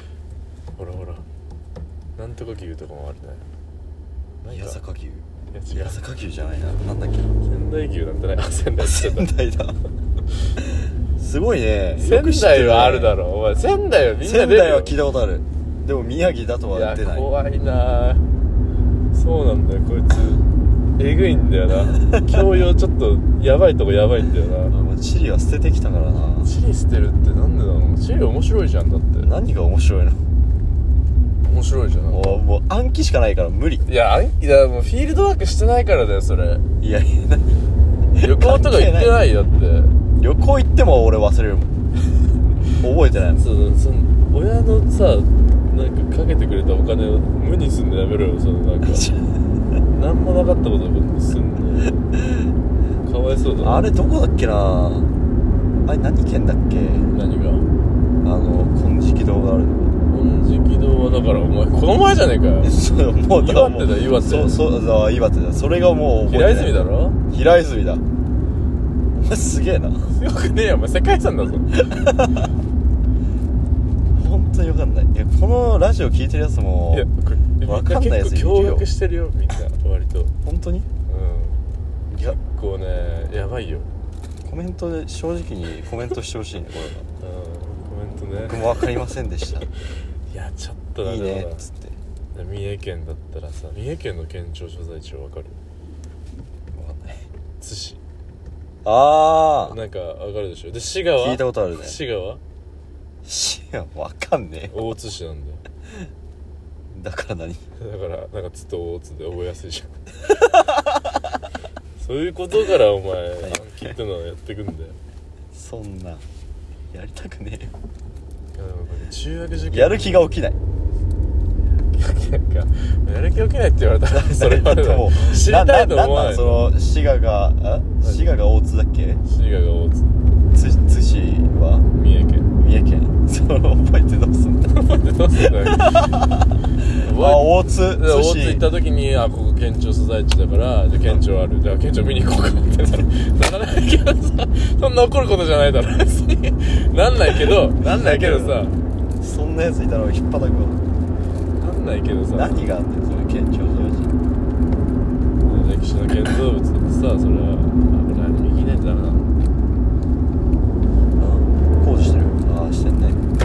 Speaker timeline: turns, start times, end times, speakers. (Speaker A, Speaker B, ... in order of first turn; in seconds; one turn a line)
Speaker A: 0.8-1.3
Speaker A: 2.2-3.5
Speaker A: 4.4-4.8
Speaker B: 4.5-7.3
Speaker A: 5.5-6.0
Speaker A: 7.4-9.3
Speaker B: 8.8-9.8
Speaker B: 10.8-13.2
Speaker A: 12.0-15.0
Speaker B: 14.2-17.3
Speaker A: 16.7-18.3
Speaker A: 19.1-20.4
Speaker A: 21.0-24.7
Speaker B: 22.0-22.4
Speaker B: 24.7-26.5
Speaker A: 26.4-29.3
Speaker B: 29.2-30.3
Speaker A: 31.4-32.4
Speaker B: 32.1-33.9
Speaker A: 33.9-36.6
Speaker B: 36.8-37.6
Speaker B: 38.1-39.2
Speaker A: 38.2-40.0
Speaker B: 40.2-41.7
Speaker B: 42.8-43.5
Speaker A: 43.4-49.1
Speaker B: 48.8-49.5
Speaker A: 49.9-52.1
Speaker A: 53.0-53.9
Speaker B: 53.6-55.1
Speaker B: 55.9-57.1
Speaker A: 57.1-57.7
Speaker B: 58.2-60.0
Speaker A: 60.1-62.8
Speaker B: 62.6-68.0
Speaker A: 63.4-64.6
Speaker A: 66.3-67.2
Speaker B: 69.1-70.1
Speaker A: 70.0-71.8
Speaker B: 71.7-72.5
Speaker B: 74.1-77.1
Speaker A: 76.9-80.3
Speaker B: 77.6-78.9
Speaker B: 80.4-80.9
Speaker A: 81.1-81.6
Speaker B: 82.1-82.4
Speaker A: 82.2-83.9
Speaker B: 84.4-87.1
Speaker A: 87.2-88.8
Speaker B: 88.5-89.7
Speaker A: 90.3-91.7
Speaker B: 91.0-92.0
Speaker A: 92.3-95.6
Speaker B: 96.7-97.3
Speaker A: 97.6-98.0
Speaker B: 98.8-99.8
Speaker A: 99.7-102.4
Speaker B: 101.2-102.0
Speaker B: 103.2-104.8
Speaker A: 104.7-105.6
Speaker B: 106.9-107.6
Speaker A: 107.8-110.0
Speaker B: 110.4-111.3
Speaker A: 112.0-115.0
Speaker B: 113.4-114.0
Speaker B: 115.5-116.2
Speaker B: 116.9-117.7
Speaker A: 118.5-120.3
Speaker B: 119.7-120.6
Speaker A: 121.9-126.7
Speaker B: 124.1-129.2
Speaker A: 128.0-128.3
Speaker A: 129.2-130.1
Speaker B: 130.5-131.9
Speaker A: 131.9-132.5
Speaker B: 132.6-134.8
Speaker A: 134.7-136.1
Speaker B: 135.4-138.7
Speaker A: 137.0-148.8
Speaker B: 147.8-148.6
Speaker B: 149.2-150.8
Speaker A: 151.6-152.7
Speaker B: 152.3-154.2
Speaker A: 155.4-159.4
Speaker B: 161.2-163.2